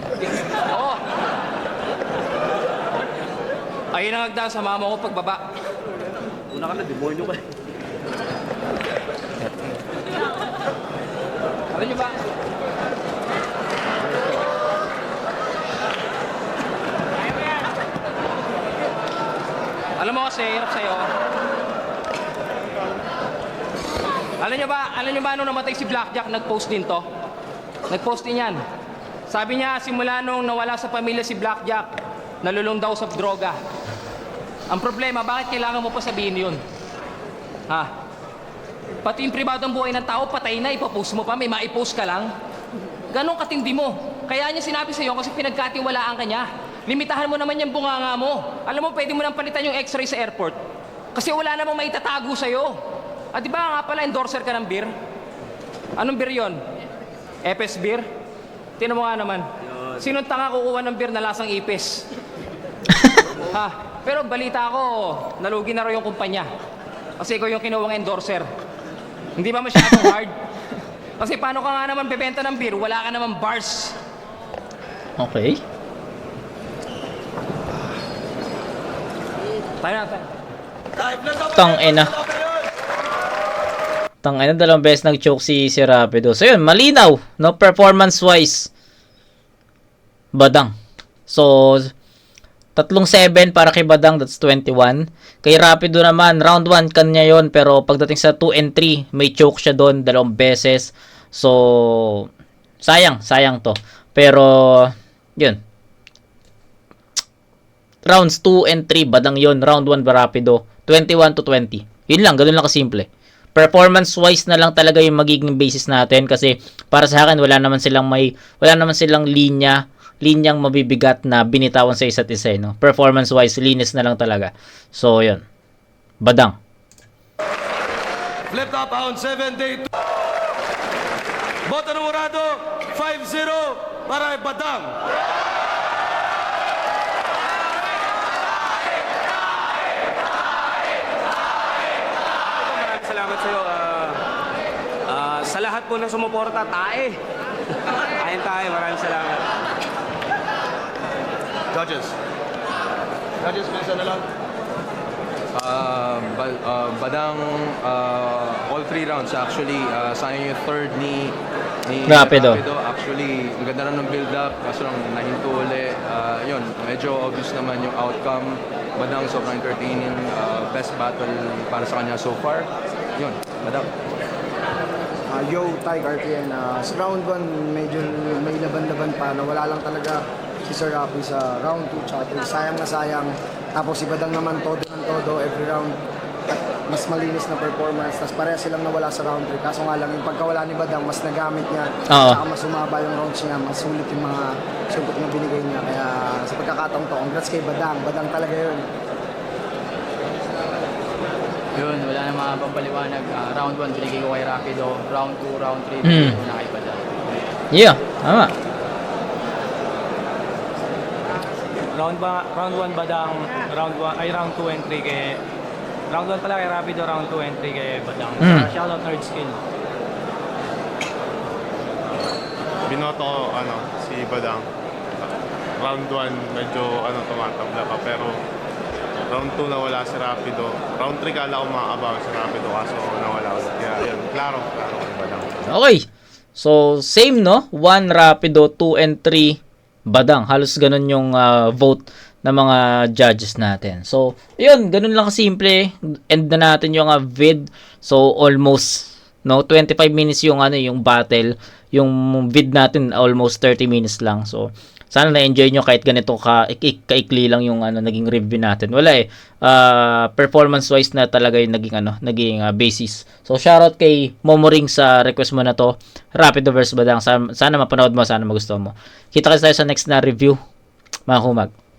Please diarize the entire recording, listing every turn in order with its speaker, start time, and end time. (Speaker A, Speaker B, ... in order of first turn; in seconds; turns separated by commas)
Speaker A: 0.6-1.0, Speaker A: 3.9-5.4, Speaker B: 6.5-7.4, Speaker A: 11.7-12.2, Speaker A: 20.0-21.1, Speaker A: 24.4-27.1, Speaker A: 27.9-28.6, Speaker A: 29.3-31.9, Speaker A: 32.4-33.6, Speaker A: 34.7-36.6, Speaker A: 39.0-42.3, Speaker A: 43.1-50.6, Speaker A: 51.1-52.8, Speaker A: 53.3-54.9, Speaker A: 56.0-56.6, Speaker A: 57.4-58.1, Speaker A: 58.8-59.5, Speaker A: 60.0-62.1, Speaker A: 63.5-66.5, Speaker A: 67.2-68.5, Speaker A: 69.4-70.3, Speaker A: 71.2-74.0, Speaker C: 75.2-75.6, Speaker A: 79.8-80.3, Speaker D: 81.0-82.1, Speaker C: 81.5-82.1, Speaker C: 84.2-88.7, Speaker C: 90.3-90.7, Speaker C: 91.3-91.9, Speaker C: 92.8-102.3, Speaker C: 102.8-105.6, Speaker C: 108.0-125.4, Speaker C: 126.2-126.6, Speaker D: 128.5-129.9, Speaker D: 131.7-135.0, Speaker B: 142.5-144.2, Speaker B: 145.1-147.2, Speaker B: 148.2-149.5, Speaker D: 151.7-152.2, Speaker D: 153.4-154.2, Speaker E: 155.5-173.9, Speaker C: 162.1-162.6, Speaker F: 175.3-186.0, Speaker F: 186.5-198.8, Speaker C: 192.1-192.4, Speaker G: 201.8-207.2, Speaker C: 206.1-206.3, Speaker C: 207.7-208.5, Speaker H: 211.9-215.4, Speaker H: 216.1-219.6, Speaker C: 218.4-218.7, Speaker I: 222.9-224.7, Speaker I: 225.8-228.3, Speaker I: 229.3-235.6, Speaker C: 235.7-270.6, Speaker C: 271.3-271.7